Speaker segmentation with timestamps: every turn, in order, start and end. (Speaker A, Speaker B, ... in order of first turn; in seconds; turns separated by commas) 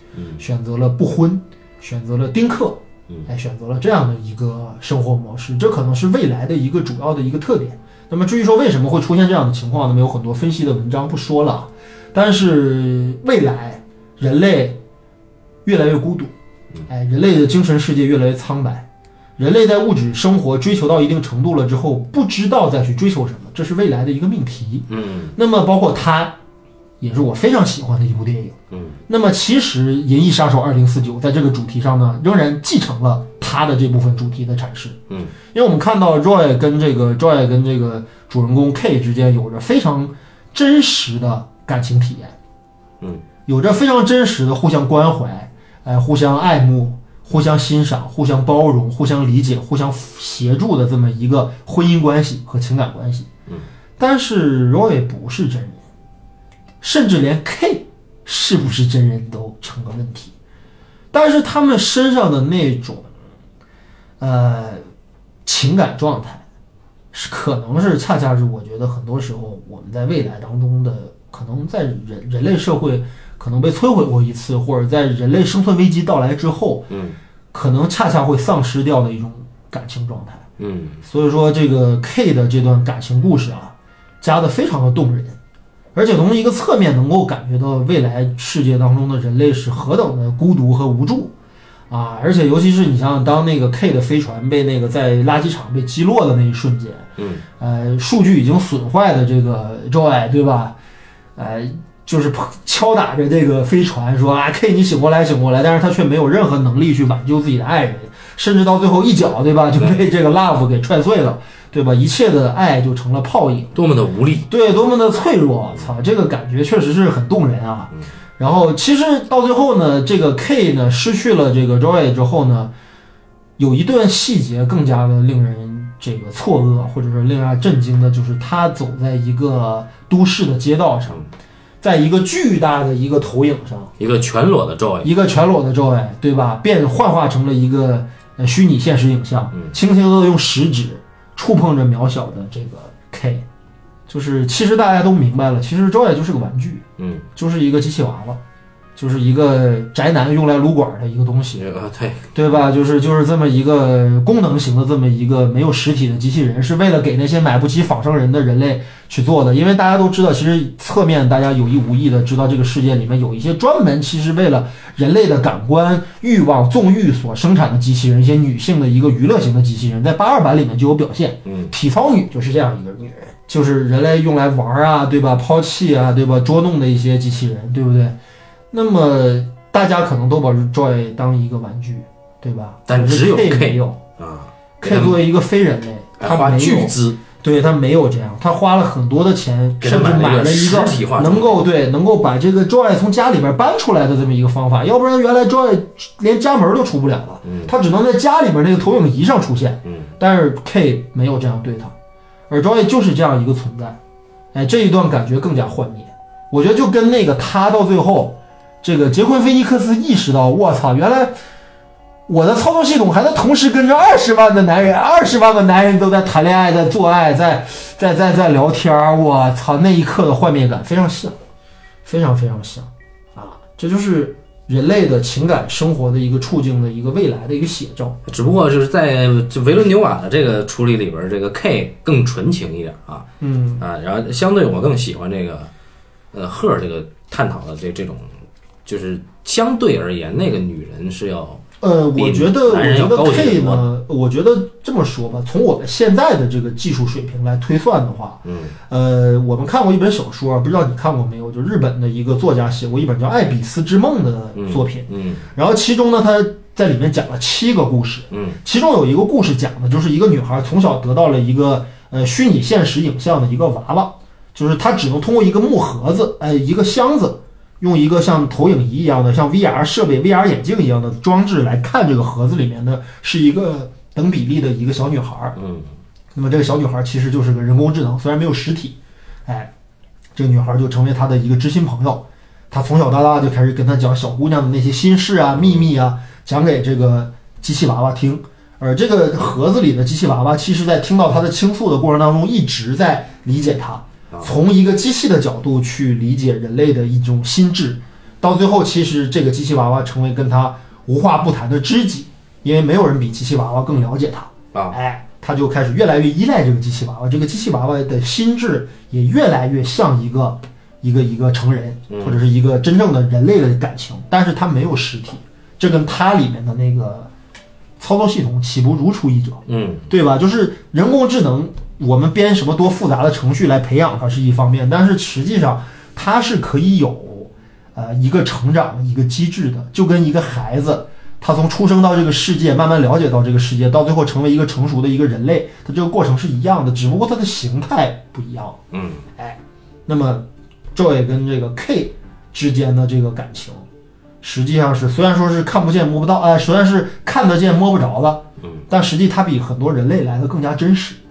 Speaker A: 0.1-0.4, Speaker B: 0.4-14.8, Speaker B: 15.6-16.3, Speaker B: 16.9-18.9, Speaker B: 19.4-26.4, Speaker A: 24.9-25.3, Speaker B: 27.0-28.5, Speaker A: 28.7-29.0, Speaker B: 29.1-35.0, Speaker B: 35.5-42.3, Speaker B: 43.5-53.3, Speaker B: 54.0-55.8, Speaker B: 56.8-60.3, Speaker B: 61.1-63.1, Speaker B: 64.2-64.8, Speaker B: 65.4-66.4, Speaker B: 67.1-76.9, Speaker A: 76.9-77.2, Speaker B: 77.5-80.4, Speaker A: 80.6-81.0, Speaker B: 81.0-85.4, Speaker B: 85.9-91.3, Speaker B: 91.9-97.1, Speaker A: 97.2-97.4, Speaker B: 97.6-100.8, Speaker B: 101.3-113.7, Speaker A: 113.7-114.5, Speaker B: 114.5-122.7, Speaker B: 123.6-131.2, Speaker B: 131.8-133.9, Speaker A: 134.0-135.1, Speaker B: 135.0-143.4, Speaker B: 144.1-146.8, Speaker A: 147.0-147.2, Speaker B: 147.3-148.4, Speaker B: 148.9-151.6, Speaker A: 151.5-152.3, Speaker B: 152.3-178.2, Speaker A: 171.4-171.7, Speaker B: 178.7-184.0, Speaker A: 182.9-185.2, Speaker B: 184.8-201.9, Speaker A: 186.2-187.2, Speaker A: 189.8-191.6, Speaker A: 197.4-197.7, Speaker A: 199.8-200.1, Speaker B: 202.5-204.0, Speaker B: 204.5-211.3, Speaker B: 212.3-221.4, Speaker B: 222.0-228.2, Speaker A: 228.2-233.3, Speaker B: 233.4-233.8, Speaker A: 233.8-235.7, Speaker A: 236.3-238.3, Speaker A: 238.8-241.6, Speaker B: 241.8-275.6, Speaker A: 242.2-243.8, Speaker A: 248.4-248.7, Speaker A: 254.6-255.4, Speaker A: 258.3-258.6, Speaker A: 275.6-275.9, Speaker B: 276.3-279.7, Speaker B: 280.3-317.3, Speaker A: 285.6-285.8, Speaker A: 312.1-312.4, Speaker B: 318.0-338.8, Speaker A: 319.7-320.1, Speaker A: 338.9-339.2, Speaker B: 339.4-343.8, Speaker B: 344.4-351.2